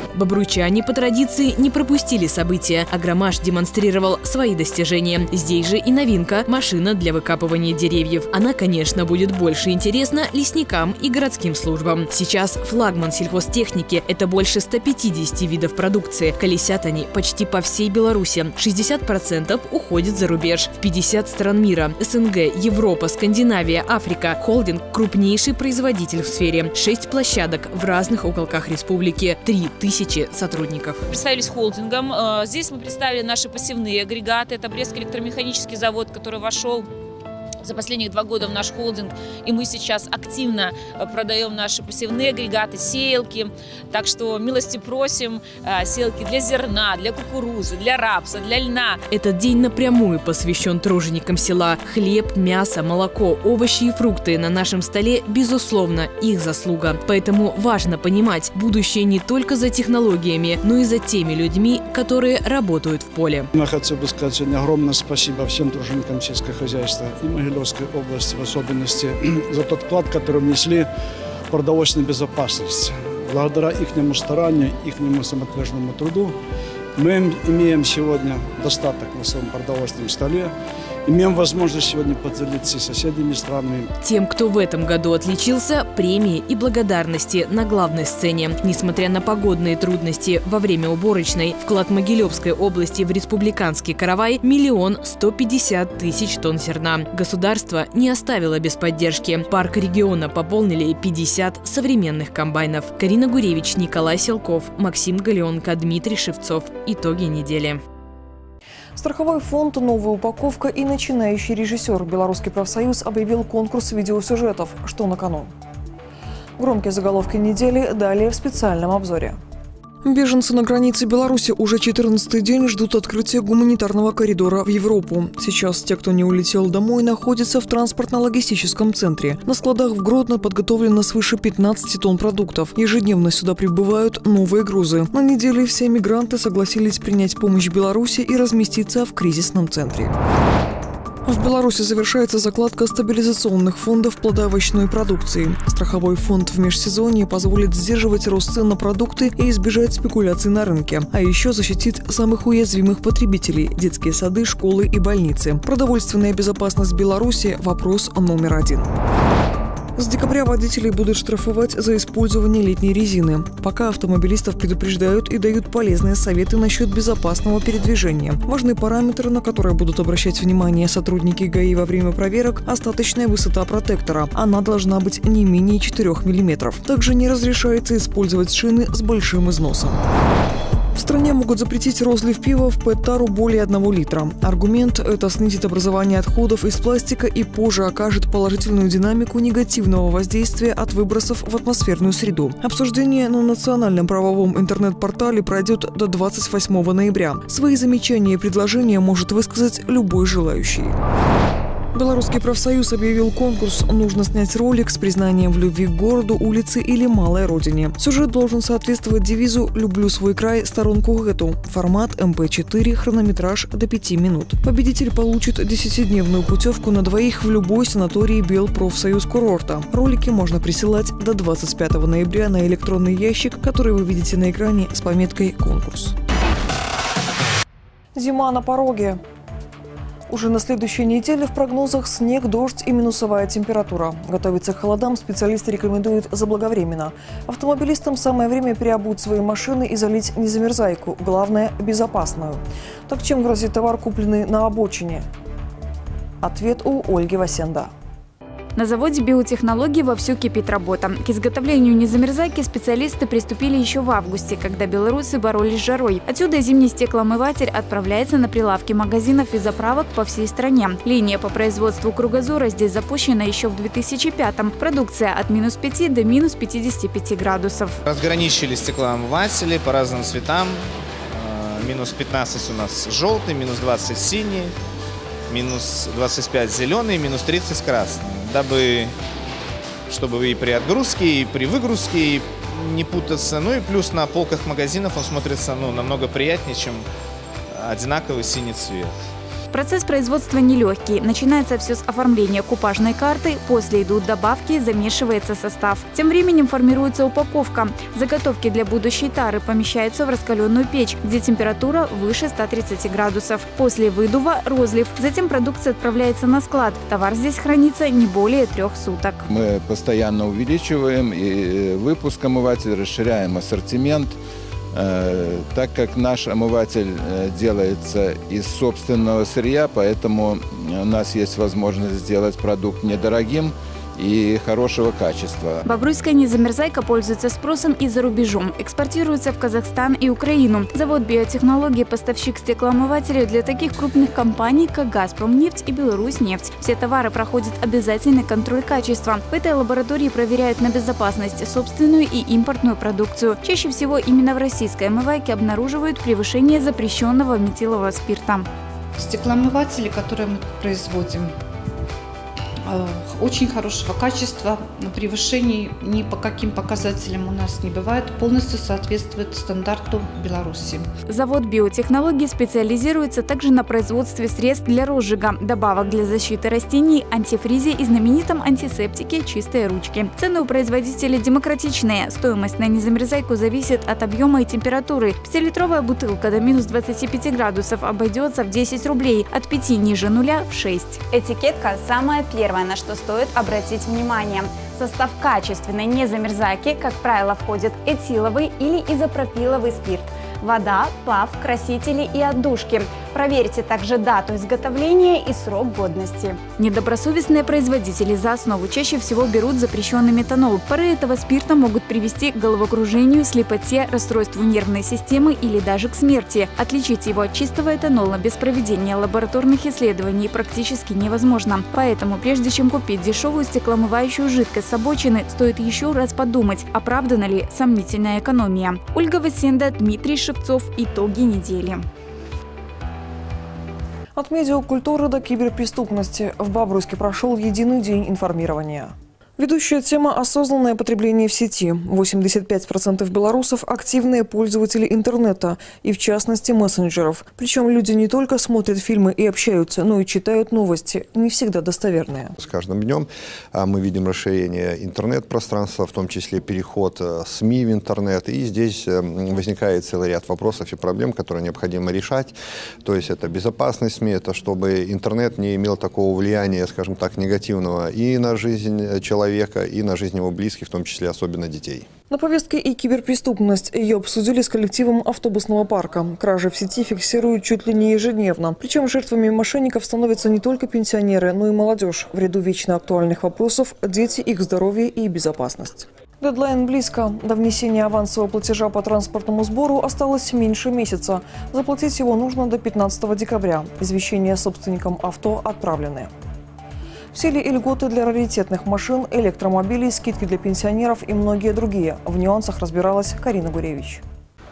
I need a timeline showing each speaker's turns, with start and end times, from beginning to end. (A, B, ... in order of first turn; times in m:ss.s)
0:00.1-0:31.0 A
0:31.1-0:36.9 B
0:37.6-0:49.0 B
0:49.1-1:03.5 A
1:03.5-1:10.9 C
1:11.5-1:16.4 C
1:17.0-1:20.5 C
1:21.0-1:23.9 C
1:24.0-1:47.8 A
1:49.0-1:55.5 D
1:56.6-1:59.4 D
2:00.0-2:20.1 D
2:21.2-2:38.9 D
2:40.0-3:00.0 D
3:00.9-3:21.0 D
3:21.9-3:46.2 D
3:48.1-3:49.2 D
3:50.3-4:05.3 D
4:06.4-4:07.9 D
4:08.7-4:28.0 E
4:28.0-4:34.7 F
4:35.5-4:39.1 F
4:40.1-4:47.0 F
4:47.7-4:49.1 F
4:49.7-5:09.4 E
5:09.5-5:14.4 G
5:14.9-5:25.8 G
5:25.8-5:48.7 E
5:49.2-5:51.5 H
5:52.8-6:01.0 H
6:01.3-6:21.3 E
6:21.3-6:36.6 I
6:36.7-7:02.0 E
7:04.3-7:22.5 D
7:22.6-7:42.1 J
7:42.3-8:06.3 D
8:07.3-8:14.2 D